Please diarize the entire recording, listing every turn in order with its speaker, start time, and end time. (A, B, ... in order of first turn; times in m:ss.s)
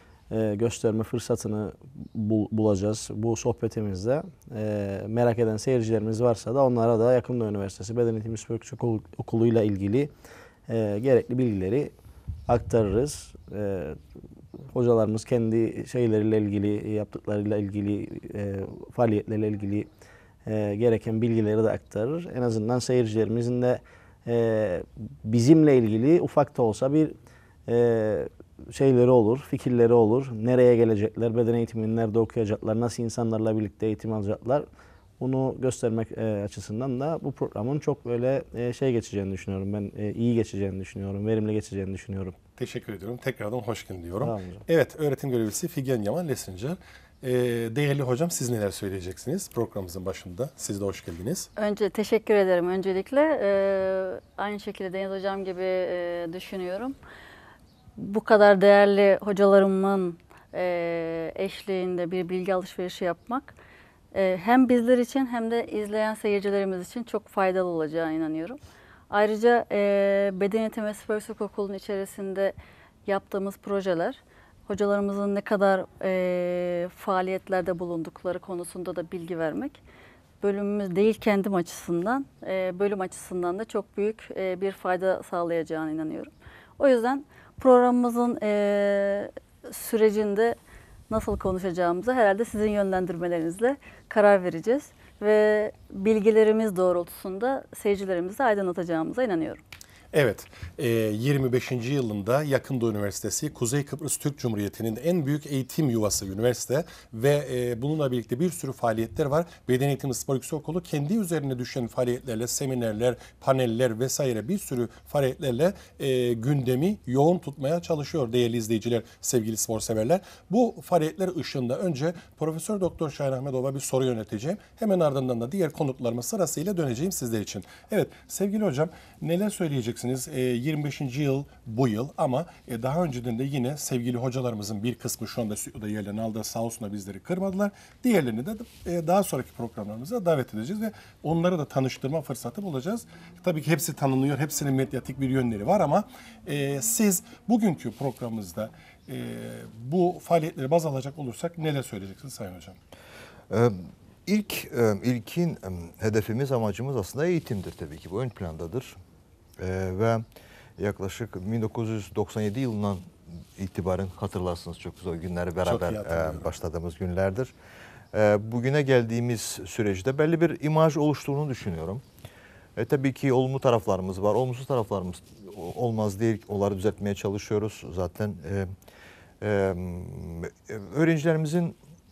0:00.3-0:10.1 A
0:10.7-0:11.9 A
0:12.5-0:14.0 A
0:14.7-0:19.9 A
0:20.4-0:27.1 A
0:27.7-0:34.7 A
0:35.2-0:42.4 A
0:42.6-0:51.5 B
0:44.2-0:44.6 A
0:51.6-0:57.0 C
0:58.0-1:03.6 C
1:04.1-1:08.6 C
1:09.1-1:19.8 C
1:20.4-1:30.6 C
1:31.1-1:39.6 C
1:40.1-2:32.8 B
2:33.5-2:39.0 D
2:39.6-2:40.2 D
2:40.8-2:47.5 D
2:45.6-2:46.5 B
2:48.1-2:52.0 D
2:52.8-2:58.7 D
2:59.4-3:01.8 D